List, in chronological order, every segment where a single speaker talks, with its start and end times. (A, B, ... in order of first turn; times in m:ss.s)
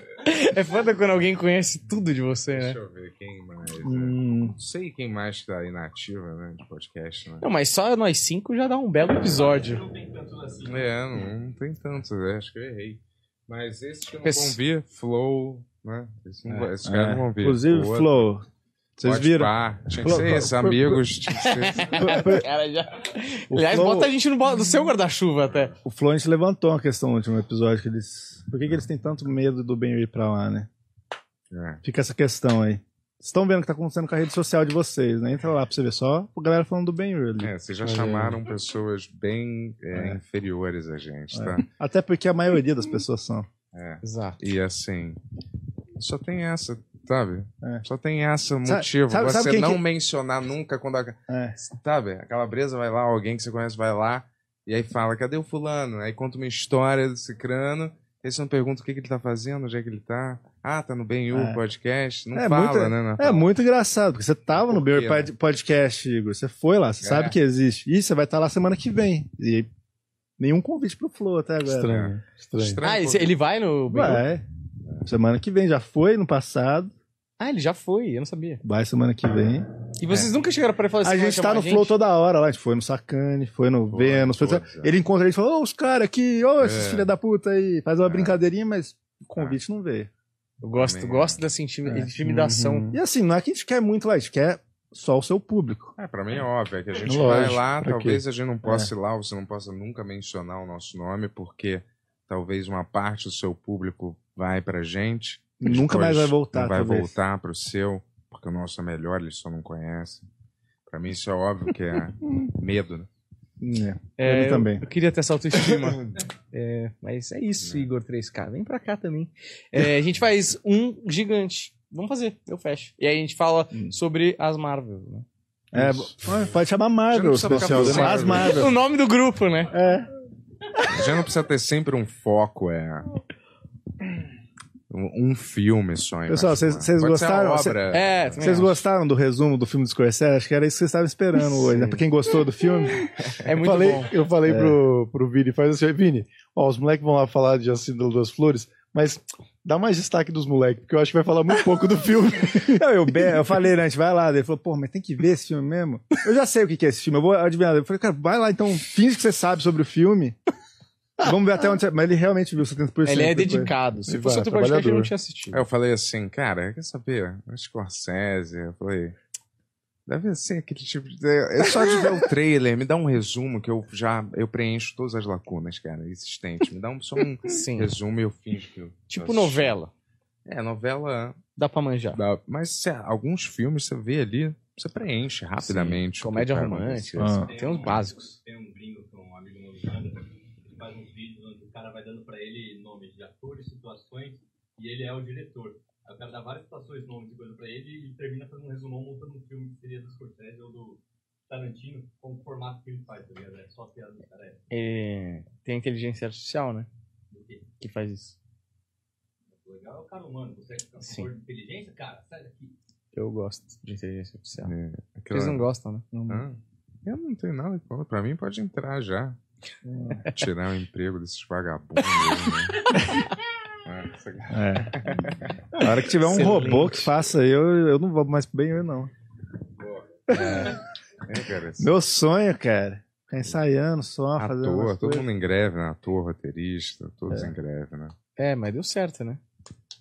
0:00.2-0:02.8 A
0:02.5-0:07.5 B
0:03.8-0:04.6 C
0:07.4-0:09.8 A
0:09.1-0:10.9 D
0:10.6-0:18.3 B
0:14.2-0:14.6 A
0:16.5-0:18.5 C
0:19.0-0:21.0 C
0:19.0-0:22.3 B
0:21.4-0:25.7 A
0:21.8-0:22.5 C
0:23.5-0:24.1 C
0:25.4-0:25.8 B
0:25.8-0:30.7 C
0:31.5-0:31.8 B
0:31.8-0:37.5 C
0:37.4-0:41.7 B
0:37.8-0:38.4 E
0:39.9-0:40.2 C
0:41.3-0:43.5 C
0:43.7-0:45.2 B
0:44.0-0:44.4 A
0:46.0-1:03.5 B
0:48.6-0:49.8 C
0:51.3-0:51.6 C
1:01.3-1:01.6 C
1:02.3-1:09.7 C
1:04.7-1:05.3 B
1:07.0-1:07.4 B
1:10.4-1:11.9 C
1:11.6-1:12.8 E
1:11.9-1:13.4 B
1:12.8-1:14.2 A
1:13.9-1:14.4 C
1:15.0-1:16.9 C
1:17.4-1:18.6 A
1:18.6-1:19.7 C
1:20.0-1:21.9 A
1:21.0-1:30.1 C
1:23.9-1:25.0 B
1:26.6-1:27.1 B
1:28.0-1:28.4 B
1:30.6-1:33.0 A
1:30.8-1:31.4 B
1:31.9-1:32.1 C
1:32.2-1:33.0 E
1:32.9-1:35.9 C
1:36.0-1:50.3 B
1:37.1-1:37.6 E
1:37.1-1:38.9 C
1:45.6-1:47.2 C
1:50.9-1:53.1 B
1:53.6-1:54.8 C
1:54.2-2:05.3 A
1:55.7-1:56.2 B
2:05.7-2:08.8 C
2:05.7-2:06.1 B
2:07.1-2:08.7 B
2:07.4-2:08.5 E
2:08.3-2:09.7 A
2:09.7-2:10.1 C
2:10.8-2:13.1 B
2:14.9-2:18.4 B
2:16.3-2:17.8 C
2:17.9-2:18.8 A
2:18.4-2:23.1 C
2:21.6-2:22.0 A
2:23.4-2:24.1 A
2:23.6-2:33.3 E
2:24.4-2:24.8 C
2:32.6-2:40.4 C
2:41.2-2:43.7 C
2:43.0-2:45.6 A
2:44.1-2:45.1 E
2:45.5-2:49.2 B
2:50.1-2:59.7 B
2:57.5-2:57.9 A
2:59.1-2:59.9 A
3:00.4-3:01.4 B
3:01.6-3:02.2 A
3:02.2-3:08.0 B
3:05.6-3:08.4 A
3:07.2-3:07.5 C
3:07.5-3:24.6 D
3:24.7-3:26.9 A
3:27.3-3:27.7 D
3:27.8-3:28.4 A
3:29.5-3:32.7 D
3:31.0-3:31.3 A
3:33.1-3:34.7 A
3:34.6-3:35.7 B
3:35.3-3:36.0 A
3:36.1-3:36.4 C
3:36.3-3:39.4 B
3:39.8-3:40.3 C
3:40.3-3:43.0 B
3:43.8-3:45.6 B
3:44.5-3:49.1 C
3:46.2-3:47.1 A
3:49.8-3:51.9 B
3:50.3-3:50.8 C
3:50.3-3:50.7 A
3:51.8-3:55.3 C
3:54.4-3:58.1 B
3:57.3-3:57.5 C
3:58.4-3:59.4 A